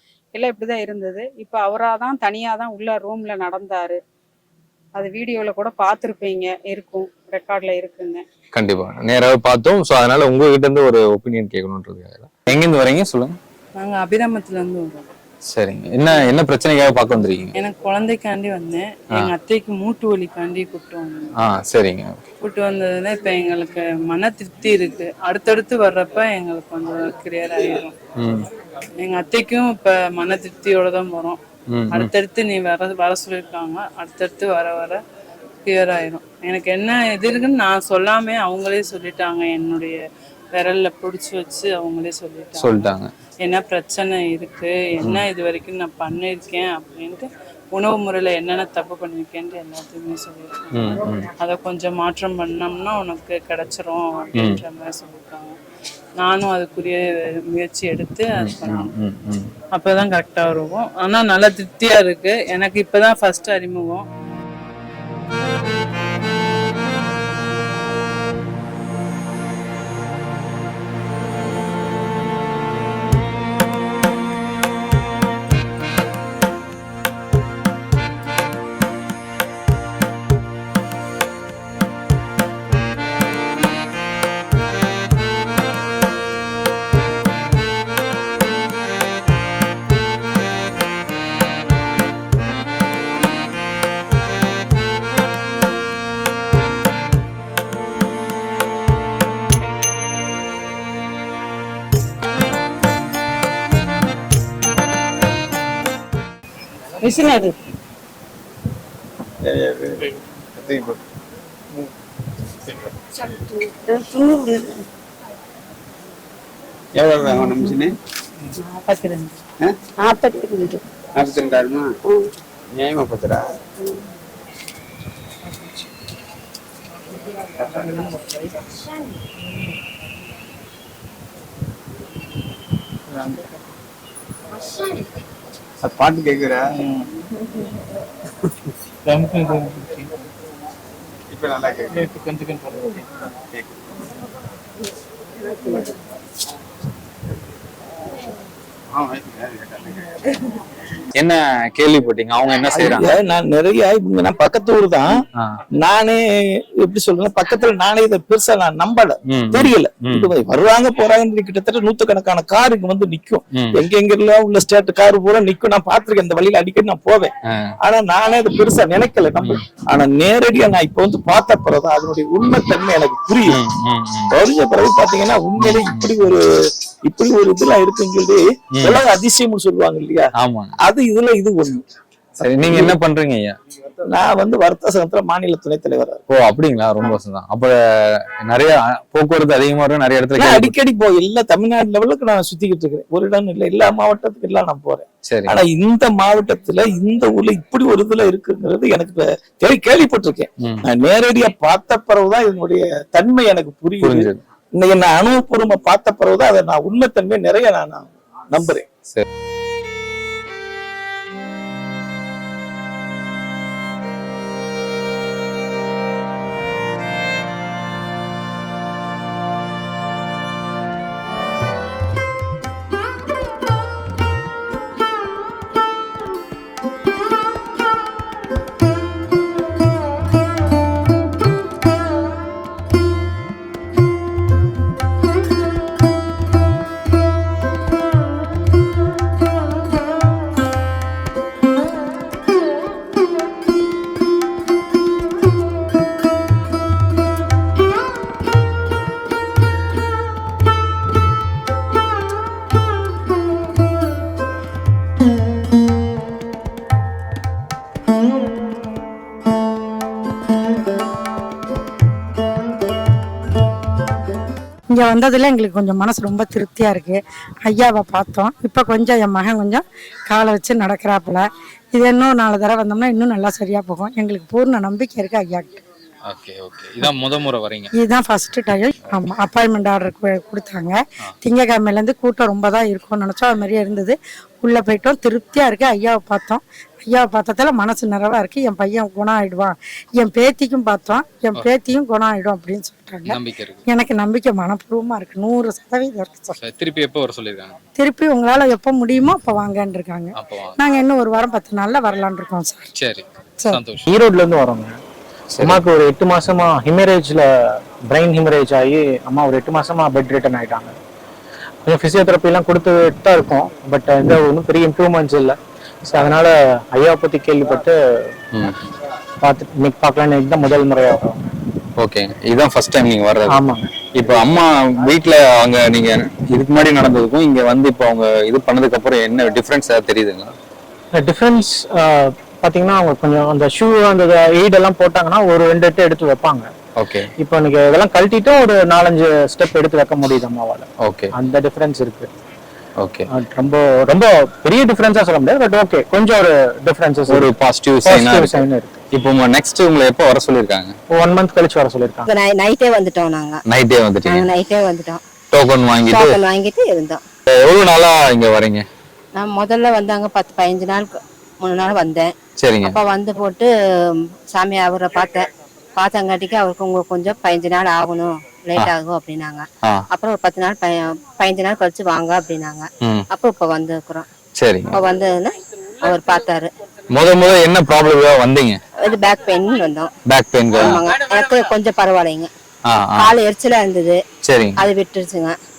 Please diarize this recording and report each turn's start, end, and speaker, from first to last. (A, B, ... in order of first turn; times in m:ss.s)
0:00.3-0:04.0 A
0:05.0-0:08.2 A
0:08.5-0:13.4 B
0:13.8-0:15.1 C
0:15.5-0:17.5 B
0:17.6-0:21.3 C
0:21.4-0:22.2 B
0:22.4-0:27.9 C
0:28.2-0:28.5 B
0:29.0-0:31.4 C
0:31.7-0:32.1 B
0:31.9-0:35.0 C
0:35.6-0:40.0 C
0:40.5-0:42.9 C
0:42.6-0:43.1 B
0:43.4-0:50.9 C
0:50.8-0:51.3 B
0:51.4-0:55.6 C
0:54.4-0:54.6 B
0:56.2-0:58.9 C
0:58.4-0:59.5 B
0:59.8-1:04.1 C
1:47.1-1:47.5 D
1:49.4-1:49.9 E
1:50.6-1:51.0 E
1:53.8-1:54.7 D
1:57.0-1:57.9 E
2:00.1-2:00.8 D
2:01.2-2:01.9 E
2:02.7-2:03.4 E
2:15.8-2:16.6 E
2:21.3-2:22.5 E
2:29.0-2:30.0 E
2:31.2-2:33.1 B
2:32.7-2:35.1 F
2:35.8-2:36.2 F
2:36.8-2:53.6 F
2:39.3-2:40.3 B
2:43.5-2:43.8 B
2:52.4-2:52.7 B
2:53.4-2:54.4 B
2:54.3-2:56.4 F
2:55.6-2:56.2 B
2:57.1-3:00.3 F
2:58.8-2:59.0 B
3:00.4-3:00.8 B
3:00.8-3:01.8 F
3:02.4-3:02.9 F
3:02.4-3:03.6 B
3:04.1-3:06.2 F
3:06.3-3:07.7 B
3:08.5-3:10.8 B
3:10.4-3:28.9 F
3:15.2-3:15.6 B
3:20.6-3:20.9 B
3:24.0-3:24.4 B
4:24.9-4:35.7 G
4:36.3-4:37.9 B
4:37.9-4:56.6 G
4:53.3-4:53.8 B
4:56.6-4:57.8 B
4:58.0-5:02.9 G
5:00.4-5:00.7 B
5:03.0-5:04.1 B
5:04.1-5:05.0 H
5:05.5-5:05.9 B
5:05.6-5:07.5 H
5:08.1-5:11.0 H
5:11.8-5:18.0 H
5:19.4-5:21.4 H
5:22.0-5:30.5 B
5:23.5-5:23.9 H
5:31.1-5:36.7 H
5:37.0-5:37.3 B
5:37.4-5:42.3 H
5:41.0-5:41.3 B
5:43.0-5:43.3 B
5:43.3-5:47.5 H
5:47.3-5:51.0 B
5:48.0-5:49.0 H
5:51.1-5:52.3 H
5:52.3-5:53.6 I
5:53.7-5:54.5 B
5:54.2-5:55.2 I
5:55.5-5:56.4 B
5:56.1-5:57.2 I
5:57.5-5:58.8 B
5:59.4-6:03.7 I
6:02.6-6:03.0 B
6:04.5-6:05.4 I
6:06.0-6:14.3 I
6:14.6-6:15.0 B
6:14.9-6:16.7 I
6:17.1-6:18.8 B
6:19.0-6:20.1 I
6:20.3-6:21.0 B
6:20.7-6:22.5 I
6:22.9-6:23.3 B
6:23.2-6:24.2 I
6:24.4-6:24.8 B
6:24.8-6:25.6 I